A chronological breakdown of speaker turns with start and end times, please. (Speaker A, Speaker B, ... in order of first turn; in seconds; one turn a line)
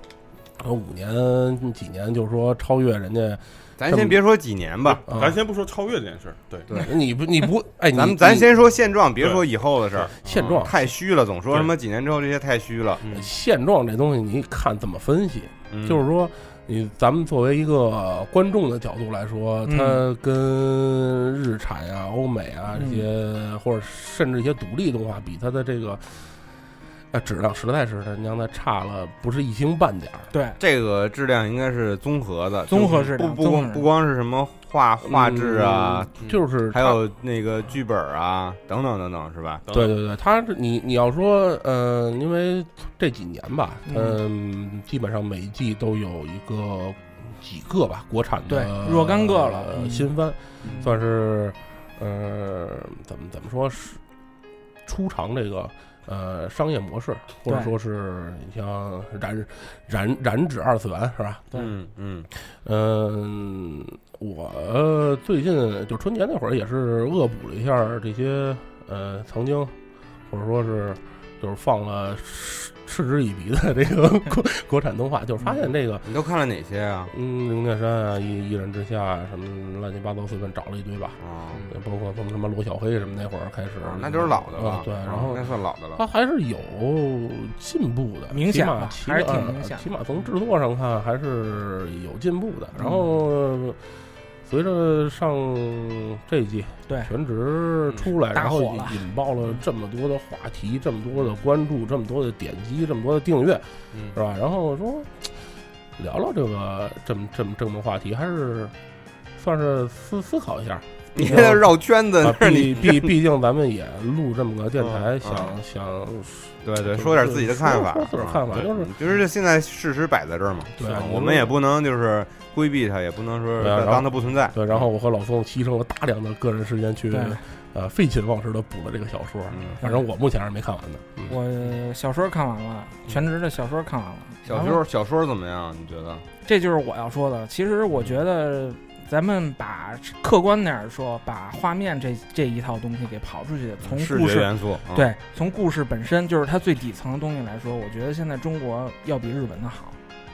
Speaker A: 0.6-4.2
Speaker B: 3.8-5.0
Speaker C: 4.8-6.7
Speaker A: 5.1-5.4
Speaker A: 6.7-8.5
Speaker B: 7.9-13.0
Speaker C: 9.2-10.7
Speaker A: 10.2-10.7
Speaker C: 11.5-11.7
Speaker C: 13.0-13.3
Speaker A: 13.1-26.2
Speaker B: 15.7-16.0
Speaker D: 19.6-20.0
Speaker D: 22.7-23.0
Speaker A: 27.1-30.3
Speaker D: 30.3-30.6
Speaker B: 30.6-36.1
Speaker D: 32.7-33.8
Speaker A: 35.0-37.0
Speaker B: 36.7-39.6
Speaker C: 39.7-39.9
Speaker A: 39.7-54.0
Speaker D: 43.9-44.2
Speaker D: 48.5-50.1
Speaker D: 50.6-51.0
Speaker A: 54.9-61.5
Speaker D: 57.5-57.7
Speaker B: 61.5-62.3
Speaker A: 62.4-69.7
Speaker A: 70.3-76.1
Speaker B: 76.0-77.1
Speaker A: 77.1-93.8
Speaker B: 81.2-81.6
Speaker C: 81.5-81.8
Speaker B: 83.8-86.0
Speaker D: 88.3-89.9
Speaker D: 92.7-93.1
Speaker A: 94.4-105.4
Speaker C: 97.9-98.1
Speaker D: 98.3-99.1
Speaker C: 103.9-104.2
Speaker A: 106.0-108.7
Speaker A: 109.3-111.7
Speaker B: 111.1-113.1
Speaker A: 112.2-118.9
Speaker B: 114.8-115.5
Speaker B: 116.6-124.9
Speaker C: 118.5-119.2
Speaker A: 120.8-121.5
Speaker A: 123.6-131.4
Speaker D: 127.1-127.4
Speaker B: 129.5-129.8
Speaker D: 129.8-130.1
Speaker D: 131.3-134.8
Speaker B: 134.4-136.3
Speaker D: 136.4-150.0
Speaker B: 143.8-145.1